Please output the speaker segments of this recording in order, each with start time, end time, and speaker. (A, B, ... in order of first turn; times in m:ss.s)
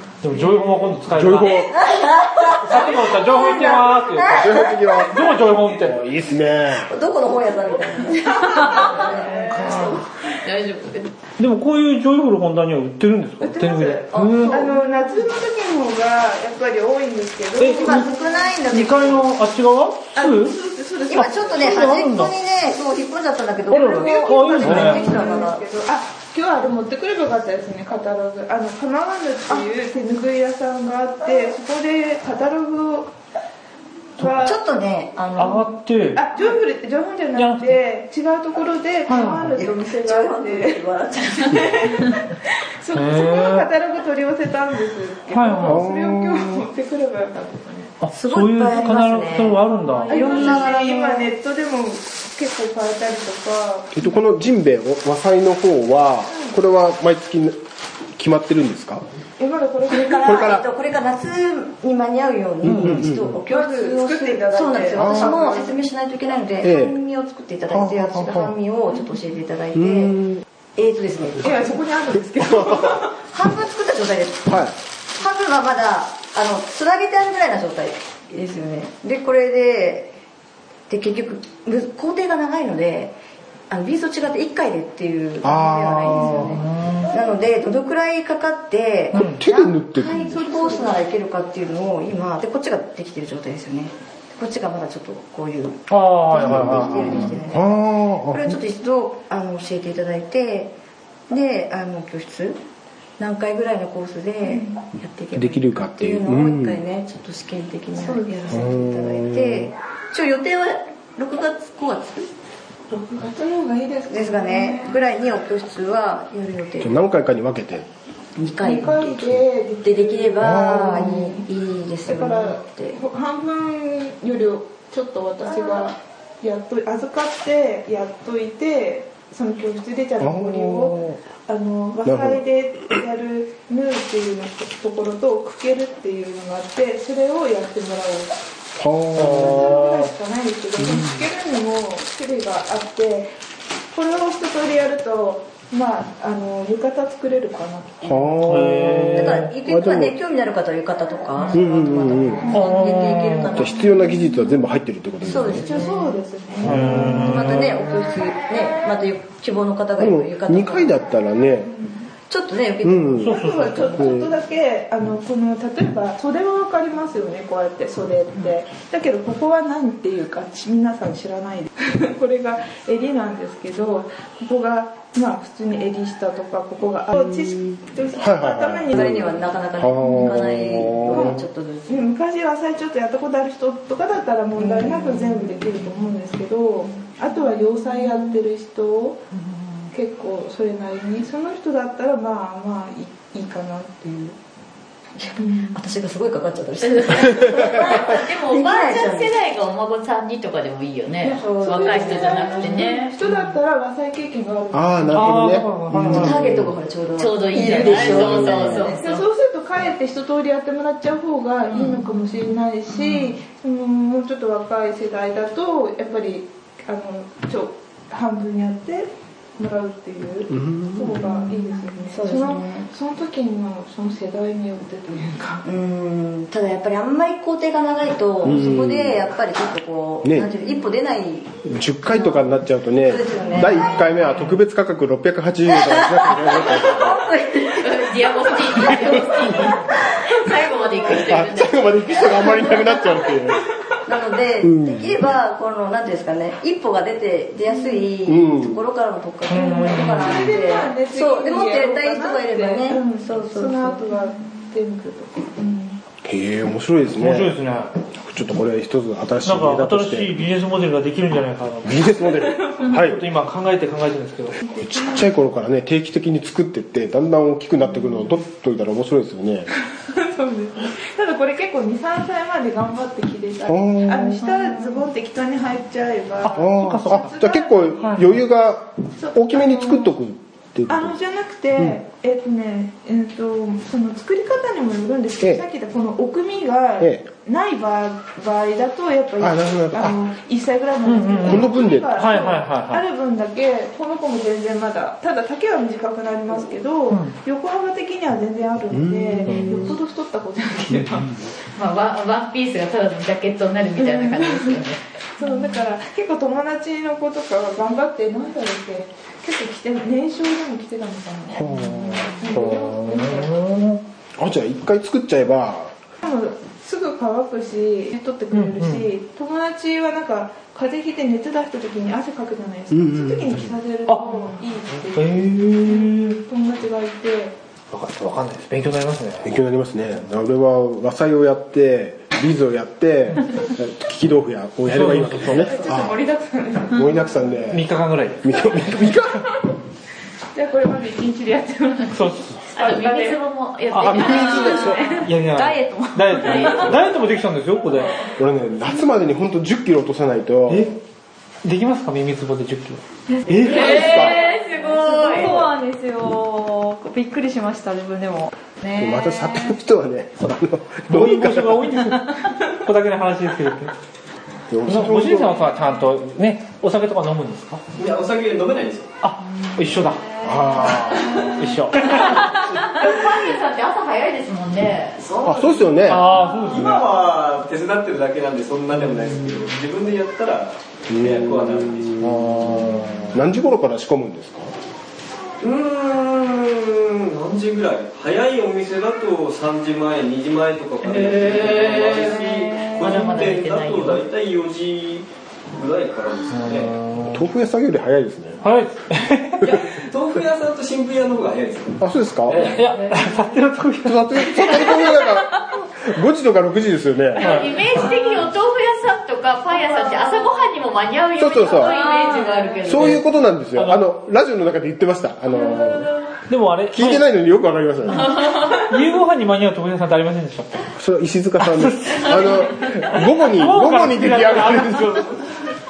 0:00.2-0:01.8 A
0:01.1-0:01.8 B
0:01.7-0:05.3 C
0:02.4-0:06.0 A
0:04.3-0:06.9 B
0:06.7-0:09.5 C
0:08.5-0:09.9 D
0:08.7-0:11.1 E
0:09.1-0:10.0 A
0:11.4-0:14.7 A
0:13.4-0:18.6 D
0:14.1-0:14.7 C
0:17.6-0:18.0 A
0:17.8-0:19.3 C
0:18.7-0:20.6 A
0:20.2-0:22.0 D
0:21.1-0:25.6 C
0:21.1-0:22.4 A
0:23.7-0:25.1 A
0:24.5-0:33.1 D
0:34.2-0:34.6 D
0:34.4-0:35.8 C
0:35.4-0:36.2 A
0:36.1-0:47.9 D
0:37.4-0:37.7 A
0:39.1-0:39.5 A
0:39.5-0:42.0 C
0:42.9-0:43.7 A
0:45.3-0:45.8 A
0:45.6-0:46.6 B
0:48.0-0:50.2 A
0:48.1-0:51.3 C
0:50.0-0:54.1 D
0:54.0-0:57.6 B
0:56.3-0:56.6 D
0:58.2-0:59.0 B
0:59.4-1:00.6 D
0:59.9-1:10.2 C
1:00.3-1:00.6 B
1:02.7-1:03.4 B
1:03.5-1:05.8 D
1:05.0-1:05.2 B
1:06.6-1:07.0 B
1:07.7-1:08.6 B
1:09.8-1:10.4 B
1:10.8-1:11.8 C
1:11.4-1:13.2 D
1:12.4-1:13.0 B
1:13.2-1:14.6 C
1:14.5-1:14.8 B
1:15.2-1:20.1 C
1:20.9-1:23.2 C
1:23.7-1:40.7 C
1:25.4-1:26.5 B
1:26.4-1:27.1 A
1:29.1-1:29.4 A
1:29.2-1:31.0 B
1:35.9-1:37.4 A
1:36.4-1:38.6 B
1:41.3-1:42.6 C
1:43.2-1:52.3 C
1:44.4-1:44.8 D
1:45.3-1:46.8 B
1:48.0-1:48.5 D
1:48.5-1:49.7 B
1:52.9-1:55.1 D
1:54.1-1:56.9 C
1:56.8-1:57.9 B
1:58.4-2:03.0 C
1:58.6-2:01.5 D
2:00.4-2:00.8 B
2:02.1-2:18.3 D
2:05.5-2:05.9 C
2:10.2-2:11.2 B
2:12.0-2:13.0 B
2:18.8-2:19.5 B
2:19.2-2:20.1 A
2:19.3-2:23.3 D
2:20.8-2:21.2 B
2:23.9-2:28.4 D
2:28.0-2:29.1 B
2:28.4-2:29.6 A
2:29.0-2:33.8 C
2:29.6-2:30.1 B
2:31.6-2:32.5 B
2:32.4-2:32.8 D
2:32.5-2:33.6 A
2:33.6-2:35.6 B
2:35.2-2:36.1 C
2:35.6-2:36.8 D
2:36.6-2:37.8 A
2:36.7-2:37.2 B
2:37.2-2:41.0 C
2:40.0-2:41.7 B
2:42.3-2:44.2 C
2:42.8-2:43.3 B
2:43.2-2:44.0 A
2:43.2-2:59.5 D
2:44.0-2:44.3 B
2:58.2-2:59.2 B
2:58.9-3:02.1 C
2:59.8-3:01.4 B
3:00.1-3:09.2 D
3:04.6-3:05.6 C
3:09.9-3:14.4 D
3:15.2-3:19.3 C
3:15.4-3:15.8 D
3:16.8-3:23.1 E
3:21.2-3:22.9 C
3:21.6-3:25.4 D
3:24.7-3:26.3 B
3:25.1-3:26.7 A
3:25.9-3:29.0 C
3:27.2-3:29.2 E
3:28.3-3:28.5 B
3:28.8-3:45.7 D
3:40.5-3:41.1 B
3:41.2-3:42.8 C
3:45.6-3:54.5 C
3:48.5-3:49.2 B
3:50.2-3:50.6 B
3:51.7-3:57.3 B
3:55.7-3:59.8 C
3:57.7-4:02.8 E
3:58.9-3:59.7 B
4:00.8-4:01.2 C
4:01.2-4:03.6 B
4:02.3-4:03.1 C
4:04.1-4:14.0 C
4:07.7-4:08.1 D
4:08.3-4:08.8 B
4:09.5-4:10.5 A
4:10.2-4:16.0 D
4:16.2-4:20.4 B
4:17.2-4:18.0 A
4:19.4-4:22.0 A
4:21.8-4:23.3 B
4:22.4-4:22.9 D
4:22.9-4:24.6 A
4:24.6-4:25.3 D
4:24.8-4:29.7 B
4:30.0-4:38.2 D
4:33.7-4:34.4 B
4:36.4-4:37.3 A
4:36.6-4:41.1 B
4:38.0-4:38.4 A
4:39.2-4:40.2 D
4:40.9-5:01.5 D
4:45.4-4:45.6 B
4:47.0-4:47.3 B
4:49.4-4:50.1 B
4:51.0-4:53.0 A
4:51.4-4:52.2 B
4:58.9-4:59.3 B
4:59.4-4:59.9 A
5:01.8-5:05.0 E
5:04.0-5:04.8 D
5:05.4-5:11.6 D
5:11.5-5:12.2 B
5:11.7-5:14.0 A
5:12.2-5:13.6 D
5:14.4-5:15.9 B
5:16.2-5:27.6 D
5:18.5-5:19.1 A
5:22.9-5:23.4 B
5:24.1-5:24.5 A
5:25.1-5:26.4 A
5:27.9-5:29.5 A
5:29.4-5:36.2 B
5:34.9-5:35.8 A
5:35.6-5:37.4 D
5:36.9-5:37.9 B
5:37.7-5:39.2 A
5:38.4-5:39.4 B
5:40.6-5:43.4 D
5:42.1-5:42.6 A
5:42.7-5:45.2 E
5:43.9-5:44.3 A
5:44.0-5:45.2 B
5:44.8-5:46.9 F
5:45.1-5:48.3 A
5:46.4-5:46.9 E
5:48.4-5:50.9 B
5:50.7-5:51.0 A
5:51.6-5:54.1 A
5:53.6-5:59.7 F
5:53.6-5:55.6 E
5:53.8-5:54.4 B
5:59.0-6:01.8 B
6:01.1-6:03.9 A
6:04.7-6:05.6 B
6:04.9-6:07.8 A
6:08.0-6:09.1 G
6:09.2-6:10.2 A
6:10.4-6:11.4 B
6:10.8-6:12.5 A
6:12.1-6:15.2 E
6:15.2-6:22.8 G
6:15.4-6:16.3 B
6:16.0-6:17.1 A
6:21.1-6:22.6 B
6:22.2-6:23.4 A
6:23.3-6:24.8 B
6:25.6-6:37.0 G
6:31.1-6:34.2 E
6:36.5-6:37.4 A
6:37.3-6:38.6 B
6:38.6-6:39.8 A
6:39.6-6:39.9 B
6:39.9-6:43.2 G
6:42.0-6:42.7 B
6:42.7-6:45.1 A
6:44.0-6:47.6 B
6:47.4-6:53.2 E
6:47.4-6:47.9 A
6:51.4-6:52.0 B
6:52.8-6:56.1 B
6:53.8-6:54.1 A
6:56.5-6:57.3 A
6:56.9-6:58.4 B
6:58.2-7:00.9 A
7:00.9-7:05.3 B
7:01.6-7:05.4 A